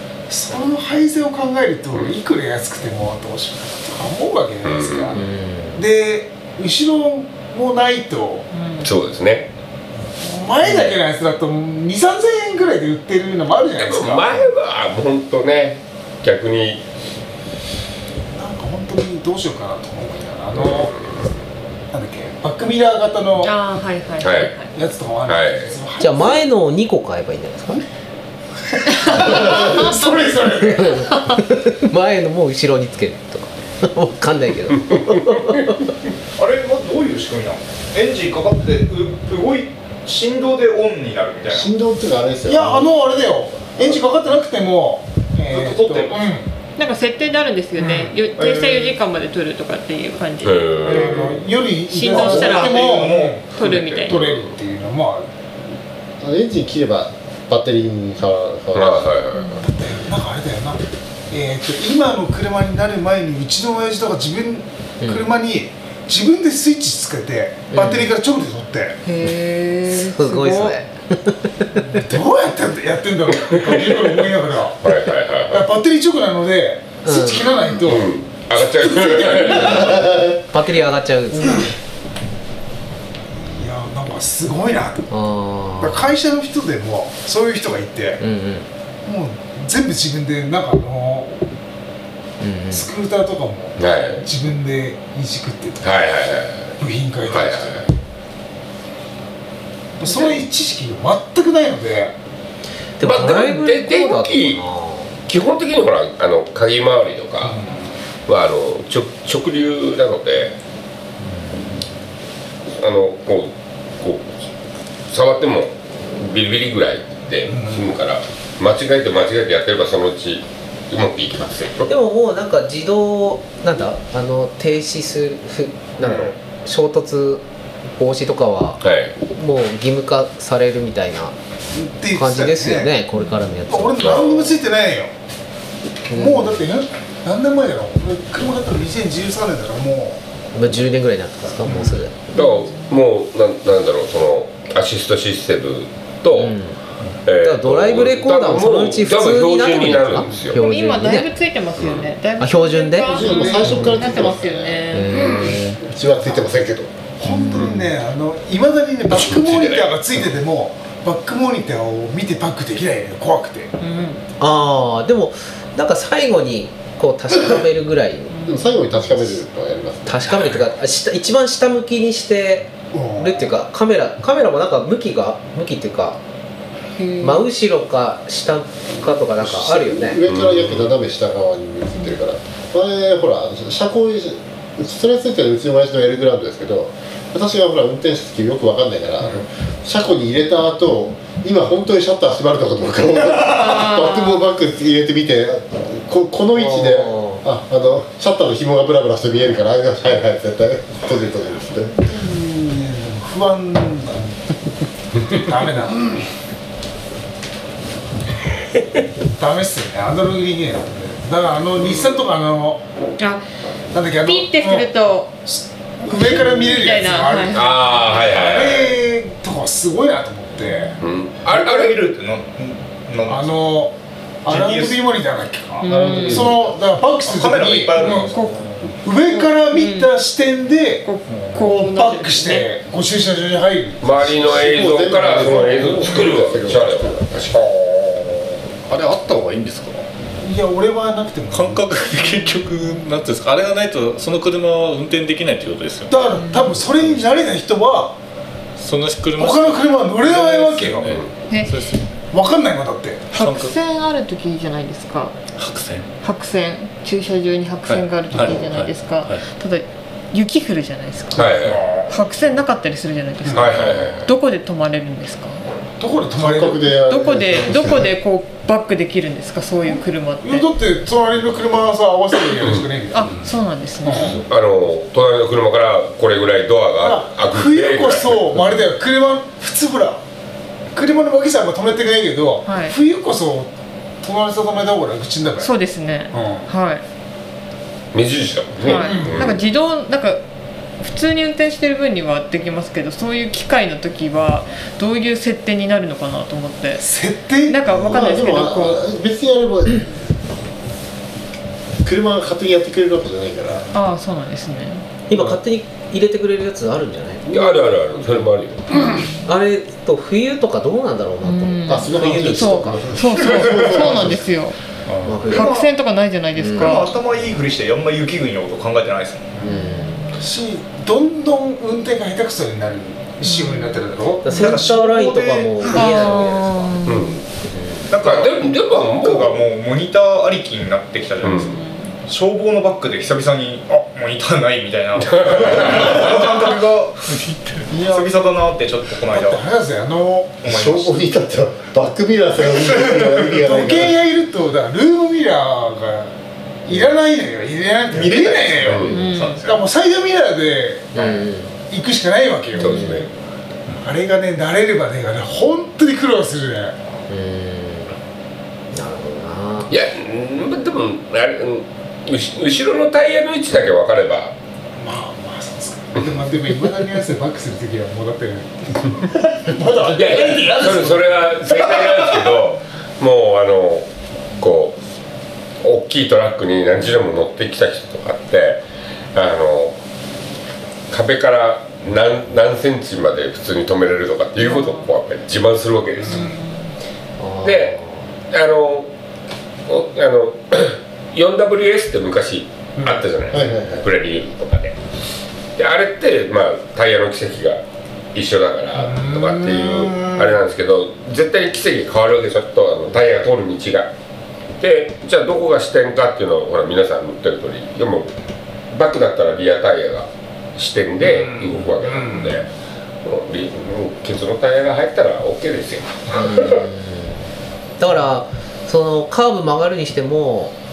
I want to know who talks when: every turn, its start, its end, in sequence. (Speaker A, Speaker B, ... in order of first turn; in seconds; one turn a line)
Speaker A: 0.3-5.2
Speaker B: 4.6-5.2
Speaker C: 5.1-5.8
Speaker A: 5.8-8.4
Speaker D: 8.5-8.9
Speaker B: 8.8-9.5
Speaker A: 10.2-14.5
Speaker C: 10.6-11.0
Speaker B: 13.8-16.8
Speaker A: 18.4-21.0
Speaker B: 20.6-21.2
Speaker A: 21.9-23.6
Speaker D: 23.4-24.7
Speaker B: 24.2-24.6
Speaker A: 24.7-26.4
Speaker B: 25.3-25.8
Speaker C: 26.0-27.9
Speaker A: 28.9-31.1
Speaker C: 29.2-29.7
Speaker C: 30.6-35.9
Speaker E: 36.4-41.7
Speaker F: 41.5-43.0
Speaker A: 42.5-46.5
Speaker E: 45.5-46.3
Speaker D: 46.8-51.4
Speaker E: 47.8-49.0
Speaker B: 50.4-51.1
Speaker A: 50.8-53.5
Speaker E: 51.0-51.4
Speaker D: 51.9-52.7
Speaker E: 52.1-53.5
Speaker D: 53.5-54.2
Speaker B: 53.5-54.5
Speaker A: 54.0-55.3
Speaker F: 56.2-59.1
Speaker B: 58.7-59.6
Speaker D: 59.3-59.7
Speaker A: 59.6-69.0
Speaker C: 65.0-65.3
Speaker C: 67.7-68.1
Speaker D: 69.0-70.8
Speaker C: 69.9-71.8
Speaker A: 71.8-75.0
Speaker B: 73.5-74.0
Speaker B: 74.8-75.7
Speaker A: 75.5-78.1
Speaker C: 77.0-77.8
Speaker B: 77.8-80.1
Speaker C: 79.0-81.7
Speaker A: 83.3-85.1
Speaker C: 85.1-86.1
Speaker A: 85.8-88.2
Speaker C: 88.2-88.7
Speaker A: 89.1-91.4
Speaker C: 92.4-92.9
Speaker A: 92.7-95.9
Speaker B: 93.8-94.2
Speaker B: 95.8-96.8
Speaker A: 96.8-97.9
Speaker B: 97.3-97.9
Speaker A: 100.0-102.1
Speaker C: 100.1-100.4
Speaker C: 103.0-105.1
Speaker B: 103.0-104.6
Speaker B: 105.3-107.6
Speaker A: 107.4-107.9
Speaker B: 108.3-110.5
Speaker B: 112.8-114.3
Speaker B: 115.1-121.9
Speaker A: 117.5-118.0
Speaker C: 121.9-127.4
Speaker B: 126.0-126.3
Speaker C: 128.0-131.3
Speaker B: 128.8-129.1
Speaker A: 131.7-133.0
Speaker C: 132.1-134.1
Speaker D: 133.2-133.4
Speaker A: 133.7-135.1
Speaker B: 134.0-134.5
Speaker C: 136.1-136.6
Speaker A: 136.1-140.2
Speaker C: 140.5-142.2
Speaker A: 141.7-142.0
Speaker B: 142.3-146.6
Speaker D: 142.3-143.0
Speaker C: 146.4-146.8
Speaker B: 147.2-150.6
Speaker C: 147.4-151.3
Speaker D: 150.4-155.4
Speaker B: 151.8-152.1
Speaker C: 152.4-154.1
Speaker F: 153.1-154.9
Speaker C: 154.9-155.8
Speaker B: 155.1-155.6
Speaker F: 155.7-156.9
Speaker A: 157.2-163.7
Speaker B: 157.6-157.8
Speaker B: 159.1-160.0
Speaker D: 163.8-164.2
Speaker C: 164.4-168.4
Speaker D: 168.3-168.7
Speaker F: 168.4-170.2
Speaker C: 169.0-169.3
Speaker C: 170.1-176.2
Speaker A: 172.9-173.5
Speaker D: 177.0-177.5
Speaker C: 177.2-180.2
Speaker F: 179.4-201.9
Speaker B: 180.3-180.9
Speaker D: 193.5-194.4
Speaker C: 196.6-197.4
Speaker A: 202.1-204.4
Speaker A: 205.3-206.2
Speaker A: 209.4-212.8
Speaker B: 211.8-212.1
Speaker D: 213.2-213.4
Speaker A: 213.9-214.9
Speaker D: 214.2-215.3
Speaker A: 215.4-221.0
Speaker D: 216.0-218.3
Speaker B: 217.5-218.9
Speaker D: 220.6-221.0
Speaker B: 221.0-222.0
Speaker E: 221.4-223.8
Speaker A: 223.2-223.9
Speaker A: 224.4-228.3
Speaker E: 224.5-225.4
Speaker D: 225.8-226.5
Speaker F: 225.8-226.6
Speaker E: 227.2-228.6
Speaker D: 228.3-230.1
Speaker A: 228.9-234.6
Speaker D: 231.1-232.7
Speaker B: 234.0-237.8
Speaker F: 234.4-237.2
Speaker A: 236.1-236.3
Speaker E: 237.8-238.4
Speaker G: 238.9-240.1
Speaker A: 240.4-242.7
Speaker G: 241.5-246.3
Speaker A: 246.1-248.2
Speaker D: 246.3-246.8
Speaker G: 248.8-252.2
Speaker A: 249.4-251.2
Speaker D: 251.5-251.8
Speaker A: 252.3-253.3
Speaker D: 253.3-255.4
Speaker G: 253.3-253.8
Speaker G: 255.6-256.1
Speaker D: 256.2-265.7
Speaker G: 257.9-259.4
Speaker B: 261.4-261.8
Speaker E: 261.7-262.2
Speaker A: 263.4-263.8
Speaker B: 263.5-264.3
Speaker A: 266.0-267.0
Speaker F: 266.4-268.1
Speaker D: 267.1-270.7
Speaker A: 269.9-273.4
Speaker D: 273.1-274.4
Speaker A: 274.0-274.4
Speaker B: 274.3-278.8
Speaker A: 277.0-280.2
Speaker A: 280.9-283.7
Speaker D: 282.6-283.0
Speaker A: 284.2-285.7
Speaker D: 285.6-287.0
Speaker A: 286.3-286.7
Speaker B: 288.1-289.6
Speaker D: 288.8-290.4
Speaker A: 288.9-289.5
Speaker D: 291.0-297.1
Speaker A: 296.9-297.9
Speaker D: 297.7-299.1
Speaker F: 297.9-300.1
Speaker F: 302.0-303.9
Speaker D: 303.9-305.1
Speaker C: 305.3-307.5
Speaker B: 307.5-309.3
Speaker D: 308.9-309.4
Speaker C: 309.4-313.1
Speaker D: 311.4-314.8
Speaker F: 311.9-314.5
Speaker A: 313.5-314.1
Speaker G: 315.1-315.5
Speaker C: 315.2-315.7
Speaker E: 315.5-315.9
Speaker D: 315.5-317.1
Speaker C: 316.5-317.0
Speaker E: 316.7-319.6
Speaker C: 319.6-320.2
Speaker D: 319.6-320.5
Speaker A: 320.4-324.6
Speaker D: 323.4-324.8
Speaker C: 324.4-328.1
Speaker E: 324.6-326.0
Speaker D: 325.9-327.4
Speaker B: 327.1-327.4
Speaker E: 328.1-331.6
Speaker B: 328.2-329.7
Speaker B: 331.4-331.8
Speaker D: 331.5-332.2
Speaker E: 332.2-337.3
Speaker B: 335.2-336.4
Speaker A: 335.8-336.5
Speaker G: 337.3-337.9
Speaker A: 337.9-338.7
Speaker E: 338.1-339.6
Speaker A: 339.3-340.7
Speaker E: 340.6-341.2
Speaker F: 340.8-344.1
Speaker E: 342.6-343.6
Speaker A: 343.6-346.4
Speaker A: 346.9-353.3
Speaker E: 348.1-349.9
Speaker D: 349.0-349.6
Speaker C: 351.1-351.7
Speaker B: 352.8-353.3
Speaker C: 352.8-353.2
Speaker A: 354.0-356.9
Speaker C: 357.3-358.1
Speaker C: 358.9-359.9
Speaker B: 359.9-364.5
Speaker A: 365.0-372.5
Speaker B: 370.1-375.0
Speaker B: 375.8-378.8
Speaker B: 379.3-380.0
Speaker B: 381.1-386.5
Speaker D: 384.6-385.1
Speaker D: 386.2-386.9
Speaker C: 387.4-388.2
Speaker B: 387.6-388.0
Speaker B: 388.5-389.1
Speaker B: 389.9-395.0
Speaker F: 393.5-394.0
Speaker B: 395.8-397.8
Speaker B: 398.3-404.1
Speaker A: 398.9-400.6
Speaker B: 404.8-408.3
Speaker B: 408.9-412.7
Speaker A: 411.2-412.6
Speaker B: 413.2-416.8
Speaker C: 416.4-417.4
Speaker C: 418.0-420.8